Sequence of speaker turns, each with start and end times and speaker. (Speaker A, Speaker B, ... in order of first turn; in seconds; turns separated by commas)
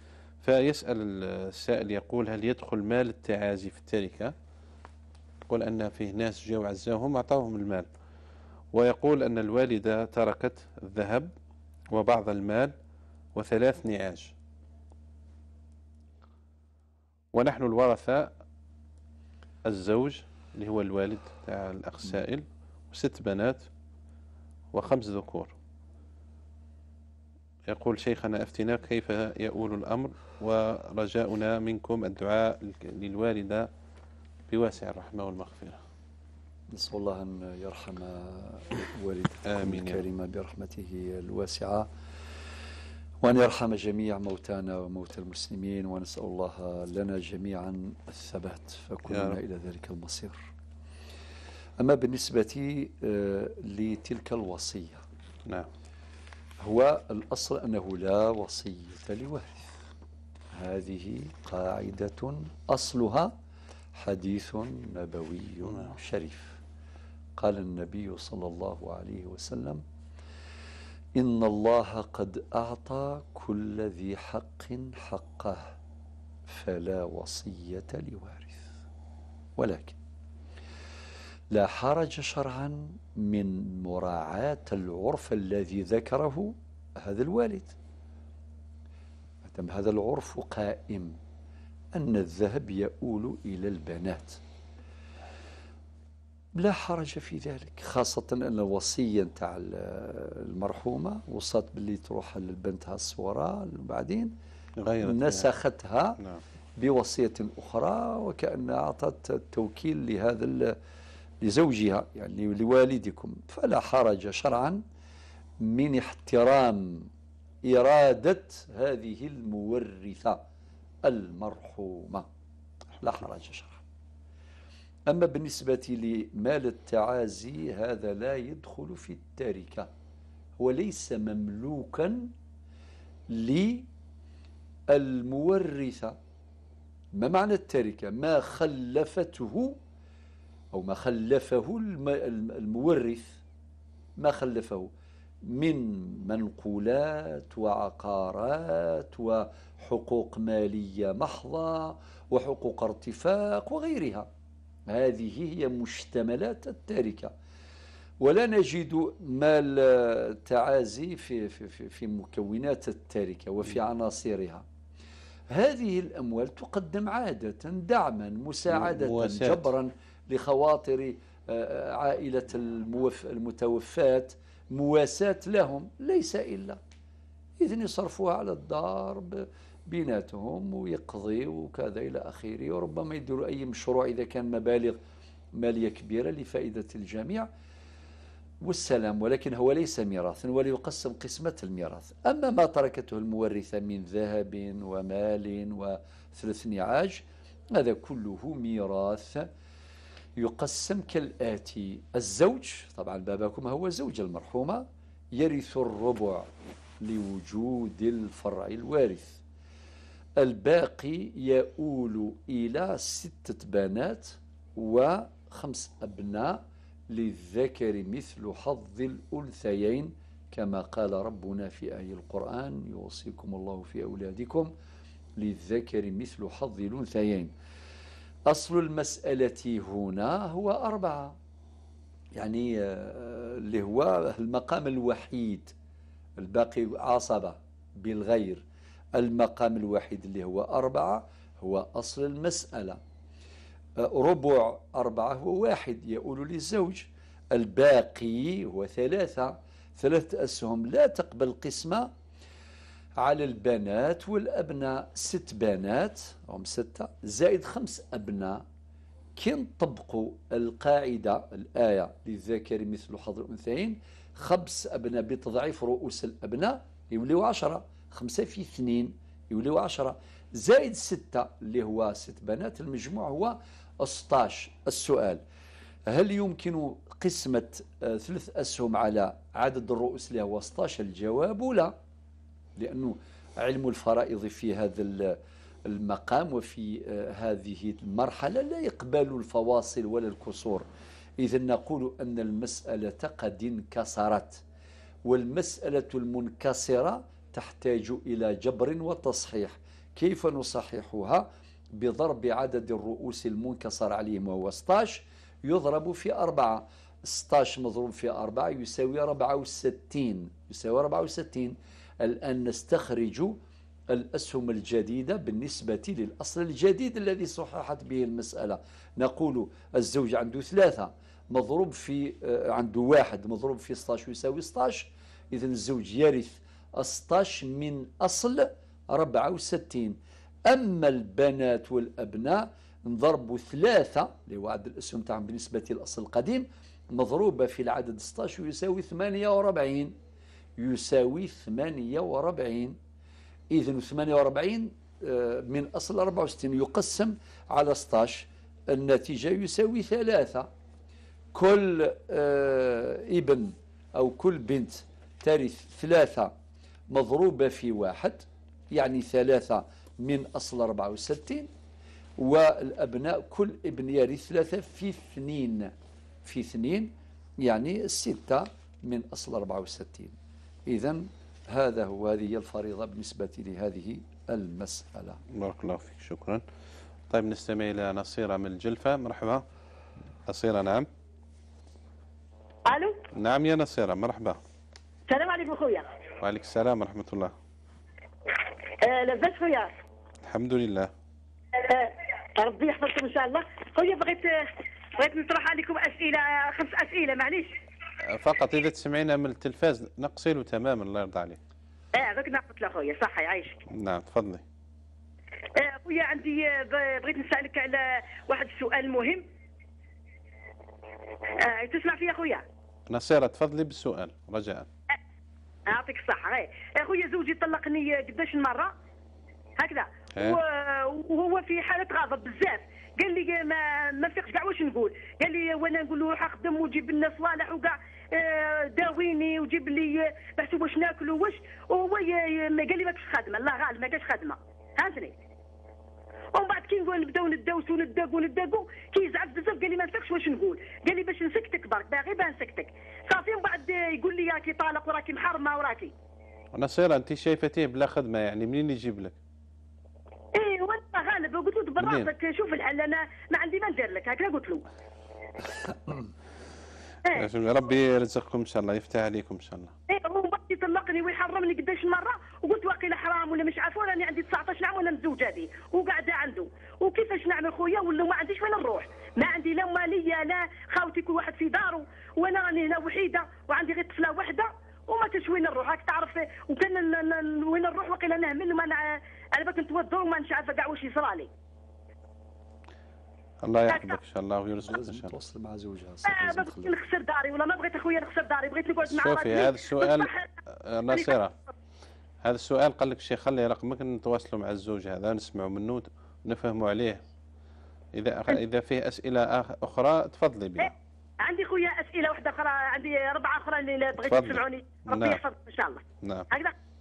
Speaker A: 0.4-4.3, Speaker A: 5.5-7.9, Speaker A: 8.7-11.3, Speaker A: 11.9-12.7, Speaker A: 13.3-14.3, Speaker A: 17.3-18.3, Speaker A: 19.6-23.7, Speaker A: 24.7-25.5, Speaker A: 27.7-33.7, Speaker A: 34.5-35.8, Speaker B: 36.7-41.9, Speaker A: 39.4-40.0, Speaker B: 43.2-50.4, Speaker A: 49.1-49.4, Speaker B: 51.8-55.0, Speaker B: 56.6-59.7, Speaker B: 60.5-63.3, Speaker B: 64.0-66.6, Speaker B: 67.4-69.8, Speaker B: 71.2-75.7, Speaker B: 76.5-78.6, Speaker B: 79.6-80.0, Speaker B: 81.5-87.7, Speaker B: 89.5-91.2, Speaker B: 91.9-94.4, Speaker B: 96.5-104.3, Speaker A: 104.8-105.5, Speaker B: 105.0-106.2, Speaker B: 106.8-110.8, Speaker B: 111.4-114.8, Speaker B: 115.6-117.1, Speaker B: 117.6-120.4, Speaker B: 121.0-122.2, Speaker B: 123.0-123.8, Speaker B: 125.1-129.9, Speaker B: 130.6-132.3, Speaker B: 133.3-133.9, Speaker B: 134.9-136.2, Speaker B: 137.2-139.8, Speaker B: 140.7-143.4, Speaker B: 144.2-144.9, Speaker B: 145.5-154.3, Speaker B: 154.9-157.3, Speaker B: 158.2-164.6, Speaker B: 165.5-176.8, Speaker A: 168.7-169.7, Speaker B: 177.6-185.0, Speaker B: 185.6-187.5, Speaker B: 188.6-199.5, Speaker B: 200.4-204.8, Speaker B: 205.3-206.5, Speaker B: 207.0-209.4, Speaker B: 210.4-216.6, Speaker B: 217.1-224.7, Speaker B: 225.4-227.5, Speaker B: 228.5-231.3, Speaker B: 232.3-235.7, Speaker B: 236.4-238.6, Speaker B: 239.1-243.0, Speaker B: 244.0-252.1, Speaker B: 253.2-258.6, Speaker B: 259.4-275.4, Speaker B: 276.1-281.9, Speaker B: 282.8-290.8, Speaker B: 291.4-294.6, Speaker B: 295.2-313.6, Speaker B: 314.1-340.1, Speaker B: 340.8-343.0, Speaker B: 343.7-350.7, Speaker B: 351.5-356.5, Speaker B: 357.1-361.7, Speaker B: 362.4-365.9, Speaker B: 366.4-370.3, Speaker B: 370.9-375.4, Speaker A: 375.5-376.6, Speaker A: 377.3-379.6, Speaker A: 380.4-381.1, Speaker C: 382.9-383.2, Speaker A: 383.3-384.6, Speaker C: 385.3-386.1, Speaker A: 386.4-387.5, Speaker C: 389.0-389.9, Speaker A: 390.4-391.1, Speaker C: 391.8-394.5, Speaker C: 395.1-397.7, Speaker A: 398.2-401.6, Speaker C: 402.1-403.8, Speaker A: 403.9-404.6, Speaker C: 405.7-409.4, Speaker C: 411.6-412.6, Speaker A: 413.1-414.9, Speaker C: 415.9-418.9, Speaker C: 419.8-435.3, Speaker C: 436.5-446.1, Speaker A: 446.7-449.4, Speaker C: 450.5-454.8, Speaker A: 452.0-452.3, Speaker A: 457.3-459.9, Speaker C: 460.1-481.5, Speaker A: 483.6-485.3, Speaker C: 483.9-484.2, Speaker B: 484.8-487.0, Speaker C: 486.2-490.5, Speaker A: 489.1-491.5, Speaker C: 491.1-491.4, Speaker A: 492.4-497.2, Speaker A: 498.1-500.9, Speaker C: 500.8-506.7, Speaker A: 504.2-505.4, Speaker A: 506.2-506.5